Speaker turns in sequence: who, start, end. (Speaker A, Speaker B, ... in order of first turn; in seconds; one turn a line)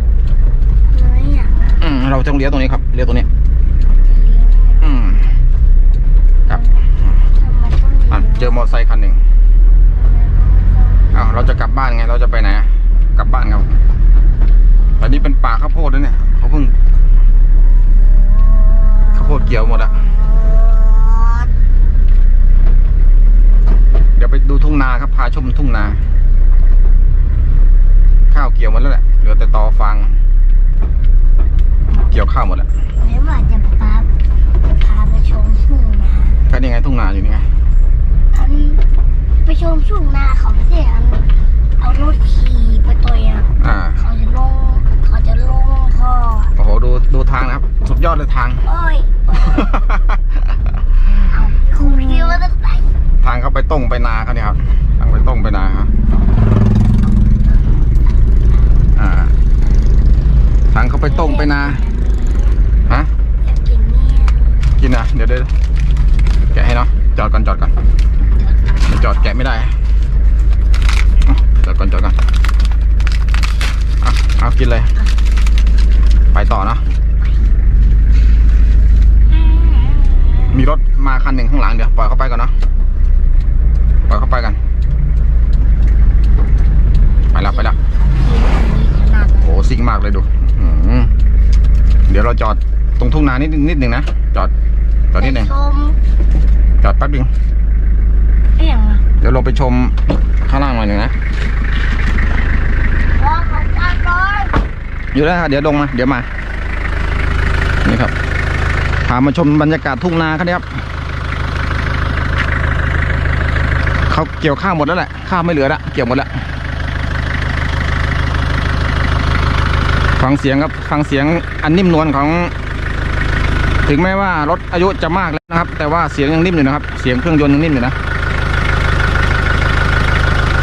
Speaker A: 0.9-1.7
Speaker B: 1.8-3.3
Speaker A: 4.0-4.9
Speaker B: 4.8-5.3
Speaker A: 6.5-8.6
Speaker B: 6.5-7.2
Speaker B: 8.1-9.2
Speaker A: 9.9-11.5
Speaker B: 11.1-13.7
Speaker A: 14.8-15.3
Speaker B: 15.0-16.8
Speaker A: 17.5-21.5
Speaker B: 19.1-19.9
Speaker B: 24.2-26.0
Speaker B: 28.3-30.2
Speaker B: 31.9-32.7
Speaker A: 33.0-34.1
Speaker A: 34.6-36.4
Speaker B: 36.5-37.5
Speaker A: 38.3-38.8
Speaker A: 39.4-41.3
Speaker A: 41.8-46.5
Speaker B: 43.6-44.0
Speaker B: 46.5-48.6
Speaker A: 48.6-49.9
Speaker B: 49.5-50.4
Speaker A: 51.2-52.9
Speaker B: 53.2-55.9
Speaker B: 59.0-59.3
Speaker B: 60.7-61.8
Speaker A: 61.0-62.5
Speaker A: 63.4-64.8
Speaker B: 64.8-65.5
Speaker B: 66.5-67.7
Speaker B: 68.8-69.8
Speaker B: 71.3-72.2
Speaker B: 74.0-74.9
Speaker B: 76.3-76.8
Speaker A: 79.3-80.6
Speaker B: 80.5-82.5
Speaker B: 84.1-84.6
Speaker B: 87.3-87.8
Speaker A: 87.4-89.5
Speaker B: 89.4-91.1
Speaker B: 92.1-94.5
Speaker B: 95.1-95.5
Speaker A: 95.2-96.0
Speaker B: 96.8-97.3
Speaker A: 98.6-99.0
Speaker B: 99.2-101.1
Speaker A: 103.2-104.6
Speaker B: 105.1-106.3
Speaker B: 107.8-108.1
Speaker B: 109.0-110.7
Speaker B: 114.1-116.4
Speaker B: 120.2-122.5
Speaker B: 123.8-128.0